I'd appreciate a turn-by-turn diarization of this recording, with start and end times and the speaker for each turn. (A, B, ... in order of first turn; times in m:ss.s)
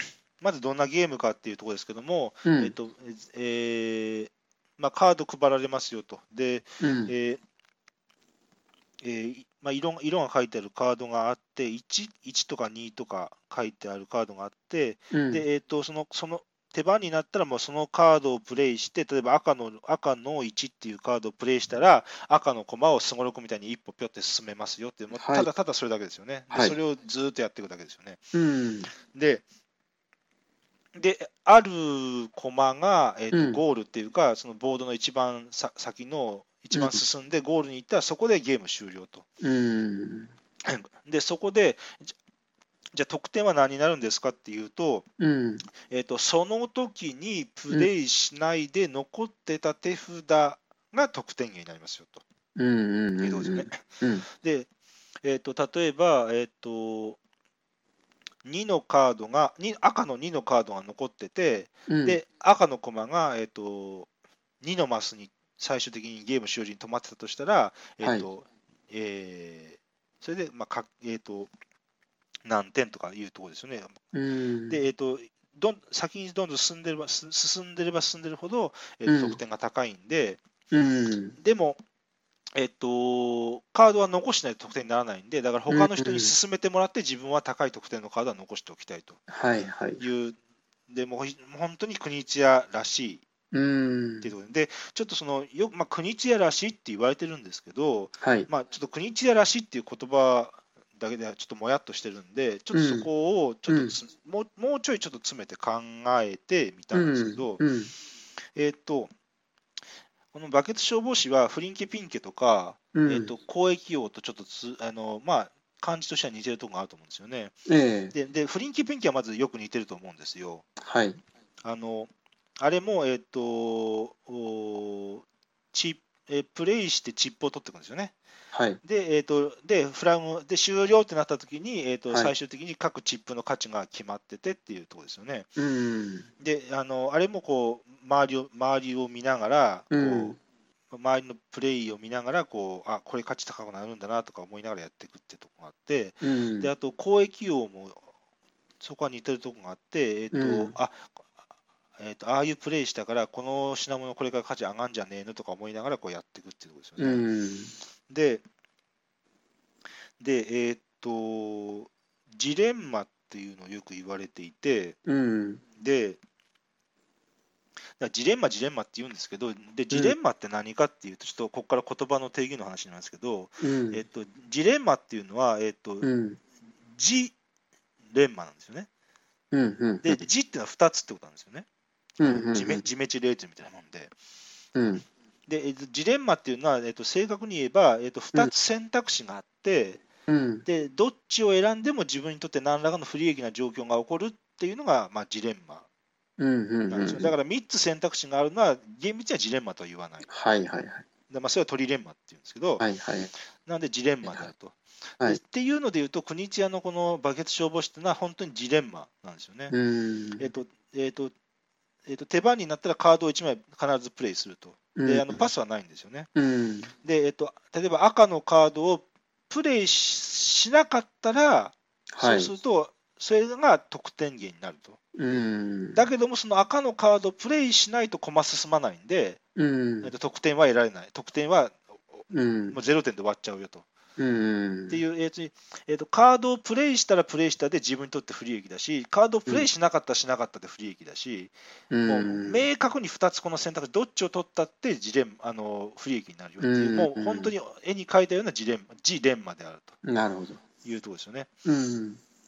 0:00.4-0:07.4 A
0:02.4-0:02.7 B
0:06.8-0:07.1 B
0:09.0-0:28.2 A
0:15.1-0:15.4 B
0:25.1-0:25.5 B
0:26.5-0:26.8 B
0:28.3-0:28.9 B
0:29.0-0:29.4 A
0:30.9-0:39.2 A
0:33.3-0:33.6 B
0:36.7-0:37.0 B
0:39.4-0:40.3 B
0:40.6-0:42.1 A
0:42.9-0:45.0 A
0:45.2-0:45.7 B
0:45.9-0:52.2 A
0:52.6-0:54.3 B
0:53.2-0:54.7 A
0:55.2-0:57.2 A
0:58.4-1:04.1 A
1:01.9-1:02.2 B
1:04.6-1:11.5 A
1:12.4-1:14.0 A
1:14.1-1:14.8 B
1:14.7-1:20.4 A
1:19.1-1:19.4 B
1:20.7-1:21.4 B
1:21.4-1:21.8 A
1:22.6-1:29.2 A
1:25.7-1:26.3 B
1:29.3-1:30.0 B
1:30.0-1:30.4 A
1:30.9-1:33.2 A
1:33.5-1:34.3 B
1:34.2-1:47.6 A
1:38.2-1:38.5 B
1:42.7-1:43.1 B
1:43.7-1:44.0 B
1:46.9-1:47.9 B
1:48.6-1:49.1 A
1:50.3-1:57.6 A
1:52.9-1:53.3 B
1:57.7-1:58.1 B
1:58.1-2:00.6 A
2:00.8-2:01.2 B
2:01.6-2:08.2 A
2:08.5-2:08.8 B
2:08.8-2:15.5 A
2:15.6-2:16.3 B
2:16.4-2:20.4 A
2:19.9-2:20.4 B
2:20.9-2:28.1 A
2:26.2-2:26.7 B
2:28.8-2:31.1 A
2:30.3-2:30.8 B
2:32.0-2:37.3 A
2:37.0-2:37.8 B
2:38.1-2:38.4 A
2:40.2-2:45.0 A
2:45.1-2:45.6 B
2:45.8-2:46.2 A
2:48.0-2:56.1 A
2:53.6-2:54.0 B
2:56.0-2:56.4 B
2:56.9-2:57.3 A
2:58.1-2:58.9 A
2:59.5-3:00.2 B
3:00.0-3:01.7 A
3:02.2-3:02.9 B
3:02.2-3:04.1 A
3:04.8-3:05.0 B
3:05.5-3:10.0 A
3:10.3-3:10.6 B
3:10.7-3:15.9 A
3:16.4-3:17.3 B
3:16.9-3:20.3 A
3:20.3-3:21.0 B
3:21.3-3:22.9 A
3:22.8-3:23.3 B
3:23.6-3:29.7 A
3:29.7-3:30.5 B
3:30.4-3:31.3 A
3:32.1-3:36.3 A
3:35.0-3:35.5 B
3:36.4-3:36.9 B
3:37.0-3:45.0 A
3:42.1-3:42.5 B
3:45.2-3:46.0 B
3:46.0-3:49.4 A
3:49.6-3:50.1 B
3:50.0-3:53.9 A
3:52.3-3:52.8 B
3:54.2-3:55.0 B
3:54.9-4:01.5 A
4:01.9-4:02.6 B
4:02.1-4:10.0 A
4:06.6-4:07.5 B
4:10.0-4:10.6 B
4:10.8-4:11.5 A
4:11.6-4:12.2 B